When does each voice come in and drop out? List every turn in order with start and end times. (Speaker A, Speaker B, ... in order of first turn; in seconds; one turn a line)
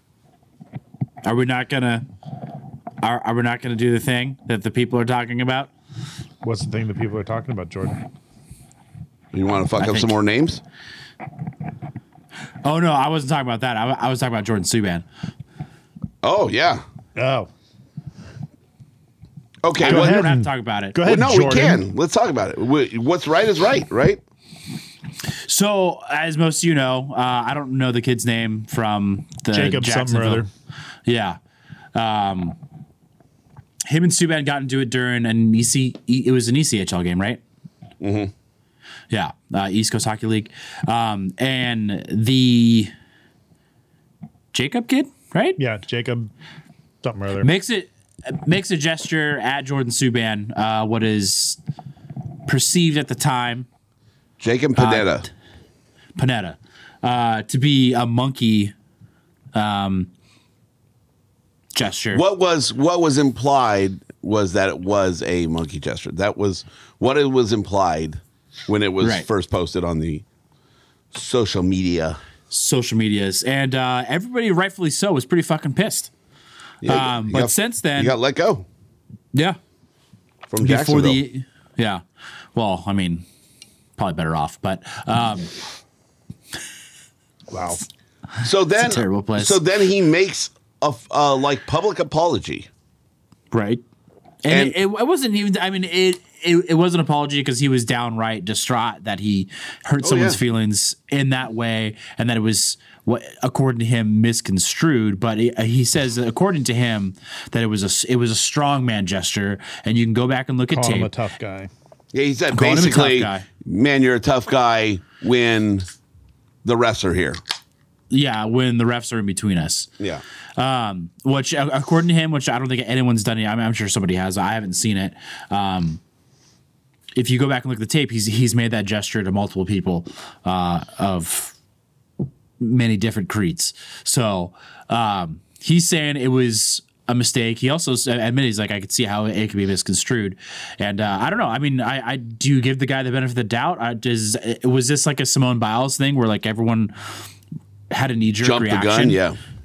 Speaker A: 1.2-2.0
Speaker A: 3.0-5.7
Speaker B: 6.4-8.0
Speaker C: 9.3-10.6
Speaker A: 9.8-10.1
Speaker A: 12.6-15.0
Speaker C: 16.2-16.8
Speaker B: 17.1-17.5
Speaker C: 19.6-20.2
Speaker A: 19.8-21.0
Speaker B: 19.8-21.8
Speaker C: 21.1-24.2
Speaker A: 25.5-30.4
Speaker B: 29.5-30.5
Speaker A: 31.1-31.4
Speaker A: 31.9-32.6
Speaker A: 33.9-37.4
Speaker C: 38.0-38.3
Speaker A: 39.1-42.9
Speaker A: 44.5-45.6
Speaker B: 45.6-46.3
Speaker B: 47.0-47.5
Speaker A: 47.4-51.6
Speaker A: 52.5-53.6
Speaker C: 54.4-55.3
Speaker A: 54.8-55.2
Speaker A: 56.2-58.7
Speaker A: 59.5-60.1
Speaker A: 61.7-62.2
Speaker C: 62.1-70.2
Speaker A: 69.0-69.3
Speaker C: 71.1-72.2
Speaker A: 72.5-76.1
Speaker C: 76.8-78.6
Speaker A: 76.8-78.1
Speaker A: 79.3-79.6
Speaker C: 80.5-81.2
Speaker A: 80.6-82.0
Speaker A: 82.5-83.2
Speaker A: 84.0-85.5
Speaker B: 87.5-87.8
Speaker C: 88.4-92.7
Speaker A: 88.8-89.6
Speaker A: 93.5-93.8
Speaker A: 94.4-111.1
Speaker C: 94.5-94.7
Speaker C: 100.0-100.4
Speaker B: 110.7-111.7
Speaker C: 112.1-115.8
Speaker A: 112.5-113.5
Speaker C: 116.6-117.4
Speaker A: 118.1-119.9
Speaker A: 120.6-126.0
Speaker A: 127.2-131.5
Speaker A: 132.6-146.9
Speaker A: 147.9-149.2
Speaker C: 148.4-149.4